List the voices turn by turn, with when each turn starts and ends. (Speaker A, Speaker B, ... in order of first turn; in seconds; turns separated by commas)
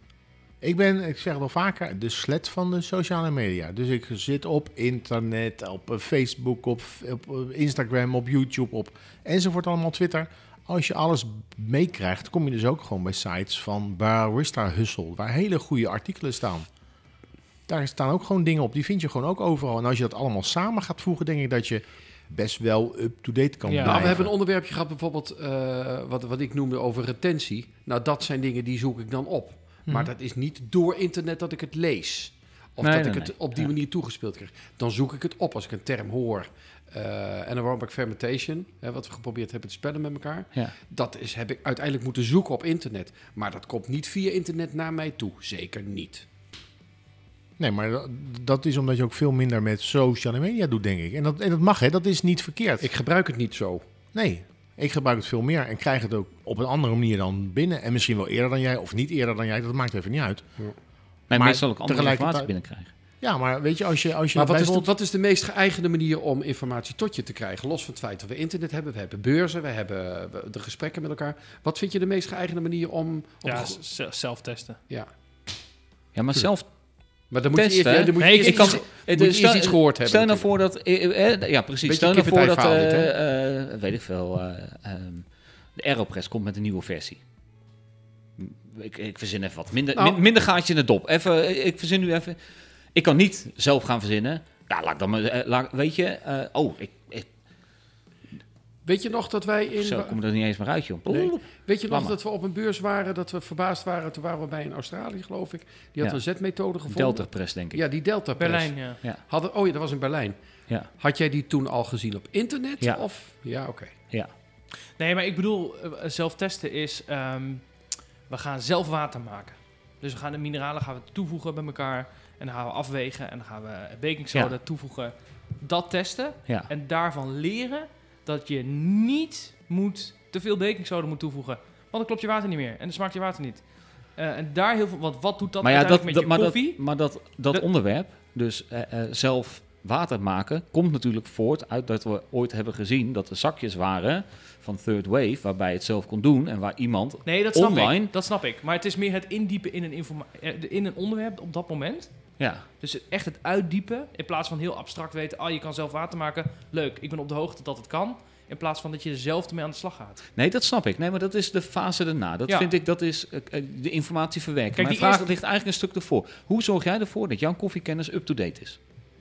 Speaker A: 0.6-16.7, Speaker A: 17.7-24.3, Speaker B: 23.6-24.1, Speaker C: 23.8-46.2, Speaker B: 29.9-30.1, Speaker D: 32.8-33.3, Speaker A: 47.6-52.9, Speaker C: 52.8-53.8, Speaker A: 54.1-60.4, Speaker D: 61.3-62.9, Speaker A: 61.3-62.5, Speaker A: 63.2-64.9, Speaker C: 64.3-73.8, Speaker B: 73.4-74.8, Speaker D: 76.1-76.7, Speaker C: 77.3-80.5, Speaker D: 77.5-85.2, Speaker B: 78.1-78.8, Speaker C: 81.8-83.1, Speaker D: 85.8-87.2, Speaker D: 88.4-92.4, Speaker C: 89.9-90.2, Speaker D: 92.9-97.3, Speaker C: 98.8-100.2, Speaker D: 99.8-102.2, Speaker C: 101.1-110.3, Speaker D: 106.9-107.8, Speaker B: 108.4-109.0, Speaker C: 110.9-113.9, Speaker B: 115.0-117.7, Speaker B: 118.3-133.6, Speaker B: 134.1-136.8, Speaker D: 135.6-148.1, Speaker B: 137.3-137.6, Speaker B: 147.2-152.1, Speaker D: 152.4-152.7, Speaker B: 152.7-160.2, Speaker D: 160.3-168.8, Speaker B: 162.5-162.7, Speaker B: 164.7-165.3